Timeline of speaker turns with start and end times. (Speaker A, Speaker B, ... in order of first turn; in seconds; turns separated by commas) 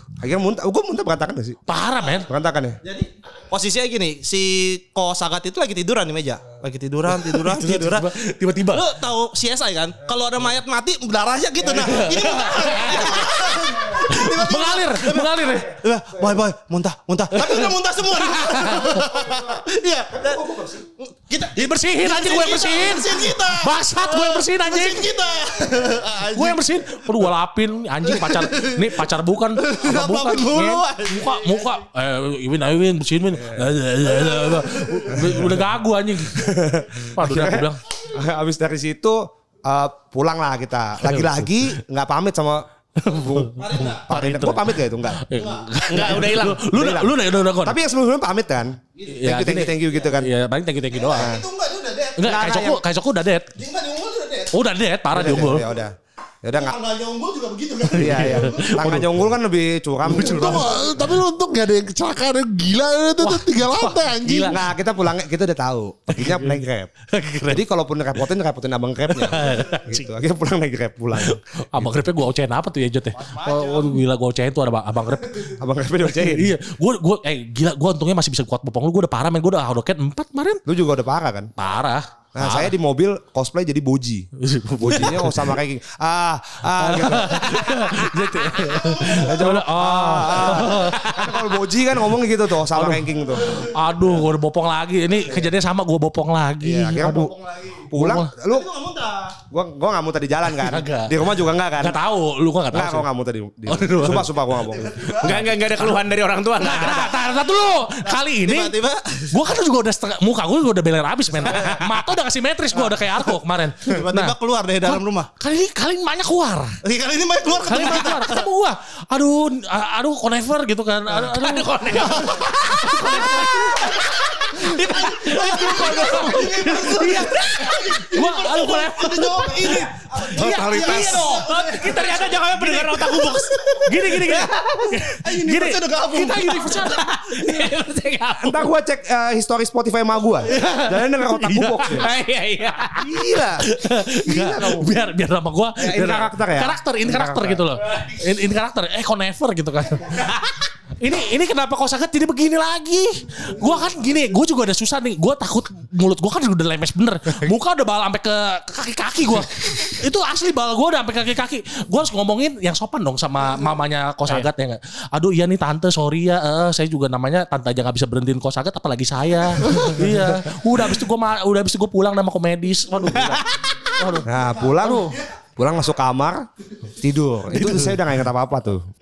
Speaker A: 0.2-1.6, Speaker B: 1.7-2.3, Speaker A: 2.2-2.8, Speaker C: 2.9-8.1, Speaker B: 7.2-8.9, Speaker C: 8.7-27.0, Speaker B: 11.8-15.8, Speaker B: 17.3-19.0, Speaker A: 20.1-20.8, Speaker B: 21.5-25.2, Speaker B: 26.2-37.8, Speaker C: 28.0-29.1, Speaker C: 29.6-31.8, Speaker A: 33.3-33.7, Speaker C: 34.1-35.0, Speaker A: 35.1-35.6, Speaker A: 36.3-45.3, Speaker B: 41.0-41.5, Speaker B: 43.0-47.8, Speaker C: 43.6-44.0, Speaker C: 45.3-45.7, Speaker D: 45.9-46.6, Speaker A: 46.7-50.3, Speaker B: 49.1-51.3, Speaker C: 50.9-52.2, Speaker B: 52.2-53.5, Speaker A: 52.2-52.8, Speaker C: 53.5-54.6, Speaker B: 54.5-55.7, Speaker A: 55.1-56.8, Speaker C: 56.5-58.9, Speaker B: 57.9-59.1, Speaker A: 58.0-60.7, Speaker B: 60.0-61.1, Speaker E: 60.1-64.6, Speaker B: 63.2-64.6, Speaker A: 64.5-66.9, Speaker B: 66.1-66.6, Speaker B: 67.1-67.6, Speaker A: 67.5-72.1, Speaker B: 69.1-70.1, Speaker B: 71.2-75.5, Speaker C: 73.5-73.8, Speaker A: 75.5-76.5, Speaker B: 76.2-80.6, Speaker A: 80.7-81.5, Speaker B: 81.6-82.7, Speaker A: 82.3-84.3, Speaker B: 84.4-85.5, Speaker A: 84.8-87.9, Speaker B: 86.8-91.2, Speaker A: 89.1-93.5, Speaker B: 92.8-97.3, Speaker A: 96.6-98.7, Speaker C: 97.4-97.8, Speaker B: 97.9-98.3, Speaker C: 98.4-99.4, Speaker A: 99.5-102.0, Speaker B: 100.6-101.2, Speaker B: 101.8-103.1, Speaker A: 102.7-105.2, Speaker B: 103.7-104.3, Speaker C: 104.9-105.2, Speaker D: 105.2-107.1, Speaker B: 105.2-106.0, Speaker B: 106.6-108.8, Speaker C: 108.1-109.3, Speaker B: 109.3-116.8, Speaker C: 113.8-115.3, Speaker C: 116.8-118.5, Speaker B: 117.6-133.3, Speaker D: 121.3-122.4, Speaker C: 122.2-123.6, Speaker D: 123.3-124.0, Speaker C: 124.6-132.9, Speaker D: 124.7-125.0, Speaker D: 130.5-134.7, Speaker C: 133.6-136.8, Speaker B: 133.8-137.1, Speaker D: 136.8-138.7, Speaker A: 138.4-142.1, Speaker B: 140.5-142.0, Speaker D: 141.9-143.0, Speaker A: 143.0-144.9, Speaker B: 143.6-150.4, Speaker A: 145.8-147.7, Speaker D: 150.1-150.5, Speaker B: 151.0-173.4, Speaker D: 173.1-173.7, Speaker B: 174.0-175.2, Speaker A: 174.3-178.8, Speaker B: 177.5-177.9